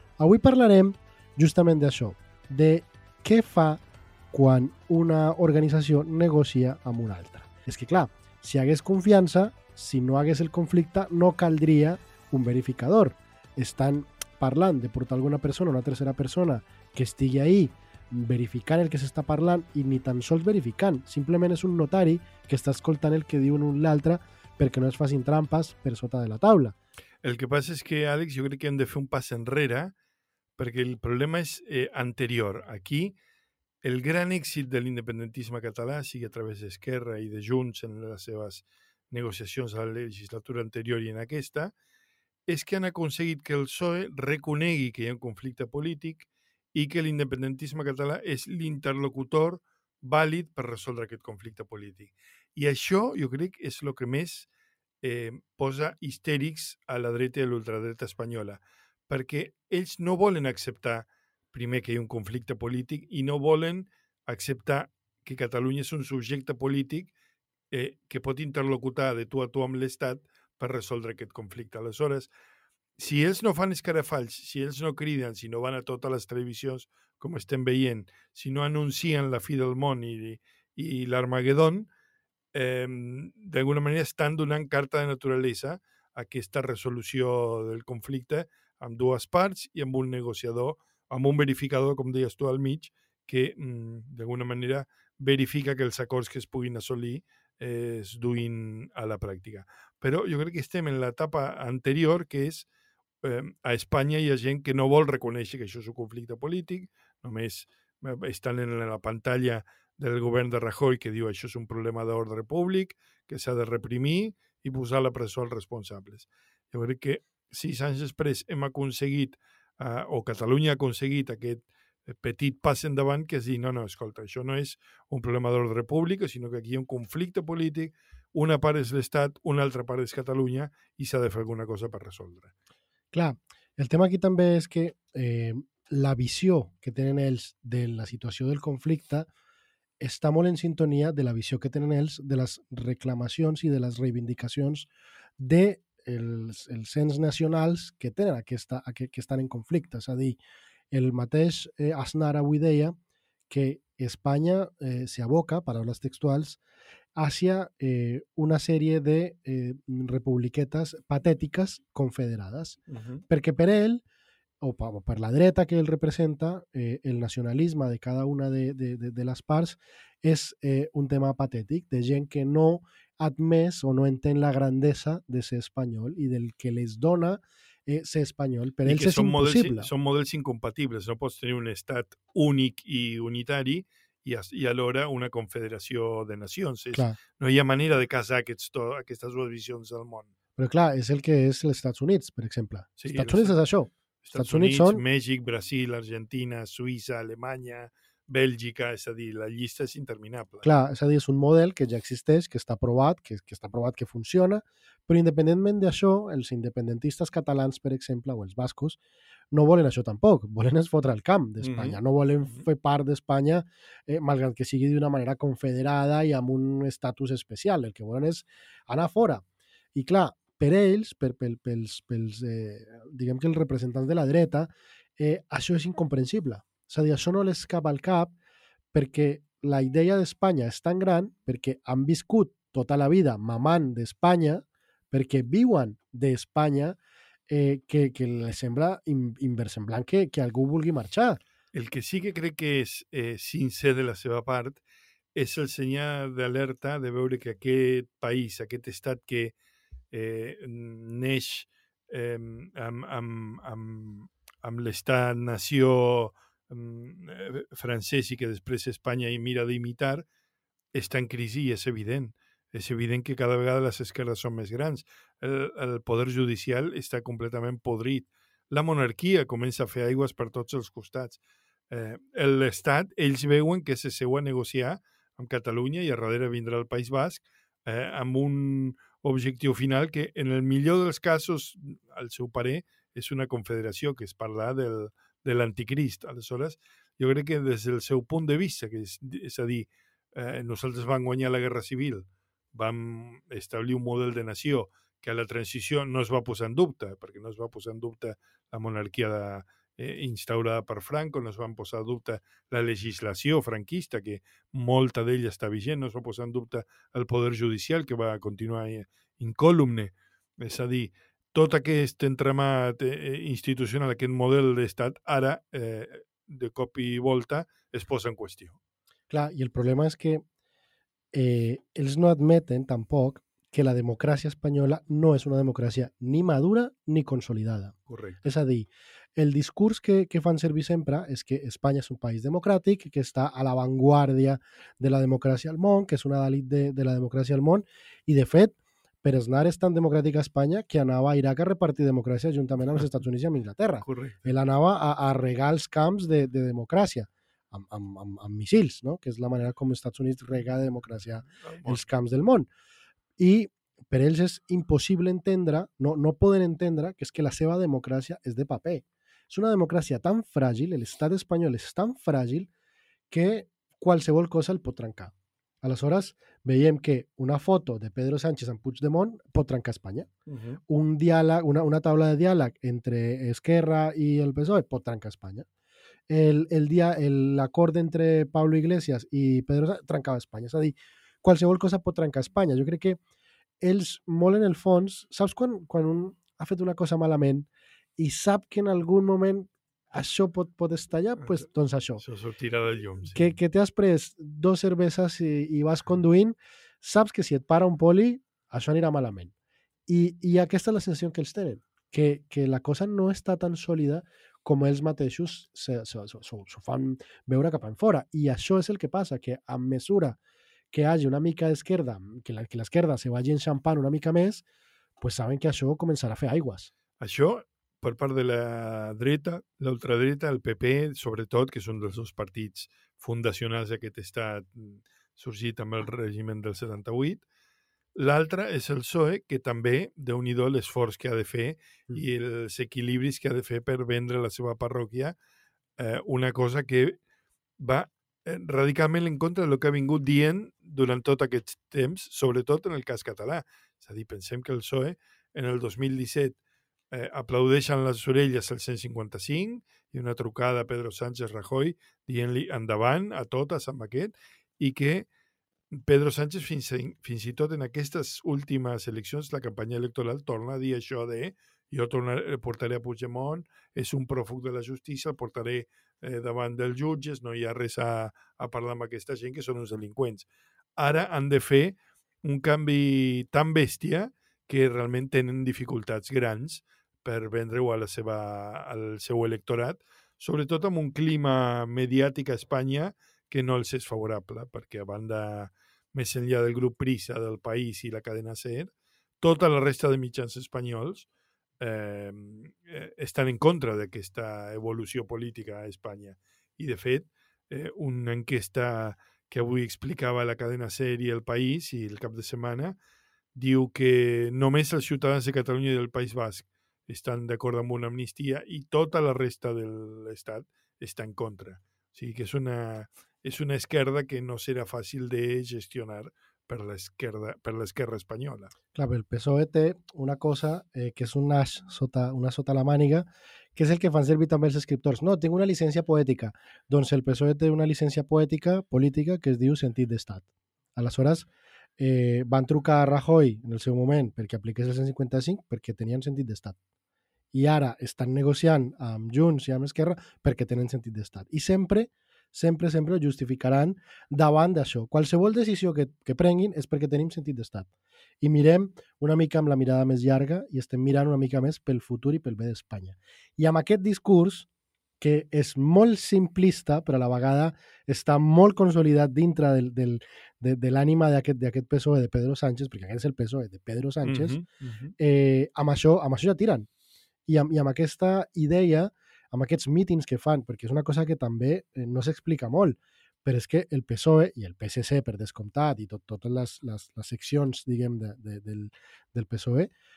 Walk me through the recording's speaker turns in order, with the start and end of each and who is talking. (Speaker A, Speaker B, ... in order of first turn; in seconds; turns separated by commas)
Speaker A: 0.2-3.8, Speaker A: 4.3-26.8, Speaker B: 27.2-29.9, Speaker B: 30.6-33.1, Speaker B: 33.8-41.7, Speaker B: 42.5-54.5, Speaker B: 55.0-67.1, Speaker B: 67.7-72.3, Speaker B: 73.0-81.9, Speaker B: 82.5-102.7, Speaker B: 103.2-132.5, Speaker A: 133.1-139.3, Speaker A: 140.0-150.4, Speaker A: 150.9-152.9, Speaker A: 153.5-156.6, Speaker A: 157.2-162.8, Speaker B: 162.9-163.2, Speaker A: 163.3-164.0, Speaker A: 164.6-179.9, Speaker B: 178.8-190.3, Speaker A: 186.9-187.2, Speaker A: 190.6-195.0, Speaker B: 193.0-193.6, Speaker B: 194.2-200.7, Speaker A: 200.6-209.0, Speaker A: 209.5-219.4, Speaker B: 211.6-212.0, Speaker A: 219.9-228.3, Speaker A: 228.9-237.0, Speaker A: 237.5-241.4, Speaker B: 241.7-244.8, Speaker B: 245.3-249.5, Speaker B: 250.1-260.2, Speaker B: 260.9-271.4, Speaker B: 271.9-318.8, Speaker A: 319.3-320.4, Speaker A: 321.3-352.7, Speaker B: 328.1-328.4, Speaker B: 344.0-344.5, Speaker B: 351.4-352.1, Speaker A: 353.4-362.7, Speaker A: 363.3-370.3, Speaker B: 370.5-370.8, Speaker A: 370.9-375.6, Speaker A: 376.3-383.2, Speaker A: 383.8-392.2, Speaker B: 392.2-393.6, Speaker A: 393.3-399.5, Speaker A: 400.1-410.4, Speaker A: 410.9-414.6, Speaker A: 415.2-416.9, Speaker B: 417.2-427.4, Speaker B: 428.1-435.4, Speaker B: 436.0-437.2, Speaker B: 437.8-446.6, Speaker B: 447.1-455.3, Speaker B: 455.9-491.3, Speaker B: 491.8-503.0, Speaker B: 503.5-518.7, Speaker A: 518.9-530.4, Speaker A: 531.0-531.5, Speaker A: 532.0-536.8, Speaker A: 537.5-547.9, Speaker A: 548.4-554.7, Speaker A: 555.2-564.6, Speaker B: 564.2-565.1, Speaker A: 565.2-566.9, Speaker A: 567.5-579.9